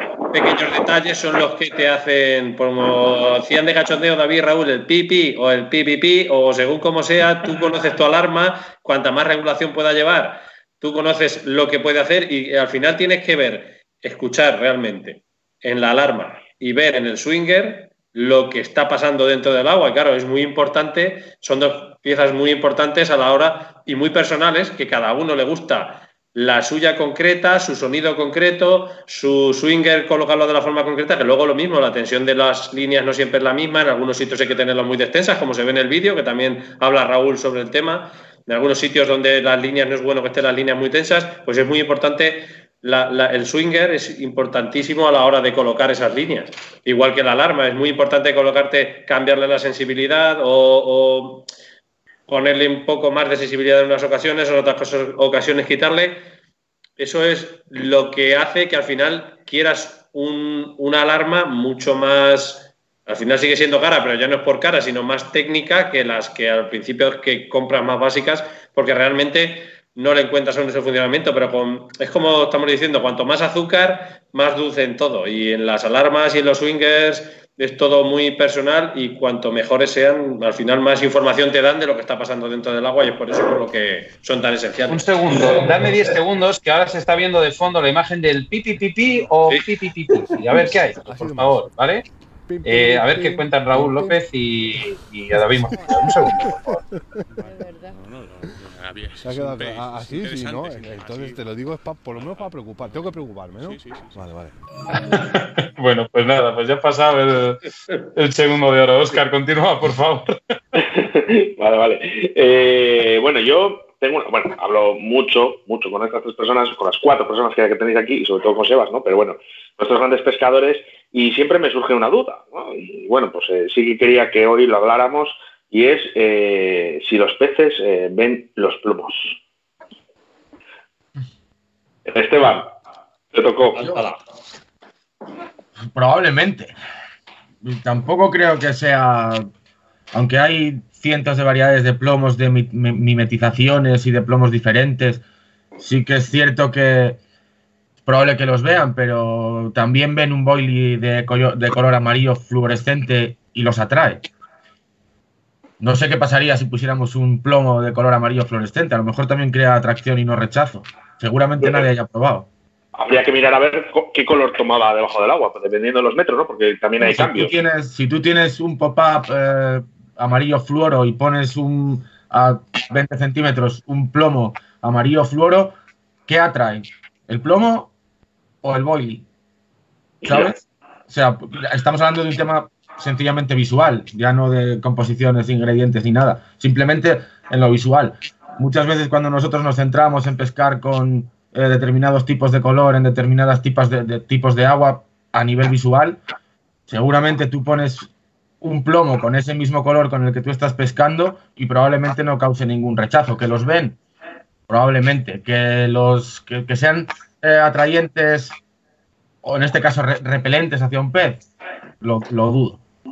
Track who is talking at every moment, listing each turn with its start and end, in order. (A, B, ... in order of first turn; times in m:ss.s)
0:00.3-0:51.5 A
0:52.3-0:56.2 A
0:57.0-1:25.7 A
1:24.9-1:32.0 B
1:30.1-1:31.6 C
1:32.5-1:34.2 C
1:32.6-1:36.8 B
1:35.3-1:37.6 C
1:39.2-1:44.5 C
1:45.1-1:50.4 B
1:50.8-2:09.4 D
2:12.1-2:12.8 D
2:13.3-2:13.8 D
2:13.8-2:14.2 A
2:15.8-2:16.8 E
2:17.6-2:19.5 E
2:20.1-2:25.2 E
2:25.8-2:27.2 E
2:28.0-2:34.3 E
2:35.8-2:42.5 E
2:41.6-2:41.8 D
2:43.0-2:47.5 D
2:47.0-2:55.8 E
2:56.3-2:57.9 E
2:58.6-2:59.2 E
3:00.2-3:16.2 E
3:00.2-3:00.5 D
3:16.9-3:18.1 E
3:18.6-3:24.0 E
3:24.7-3:28.6 E
3:29.4-3:31.4 E
3:32.0-3:32.8 E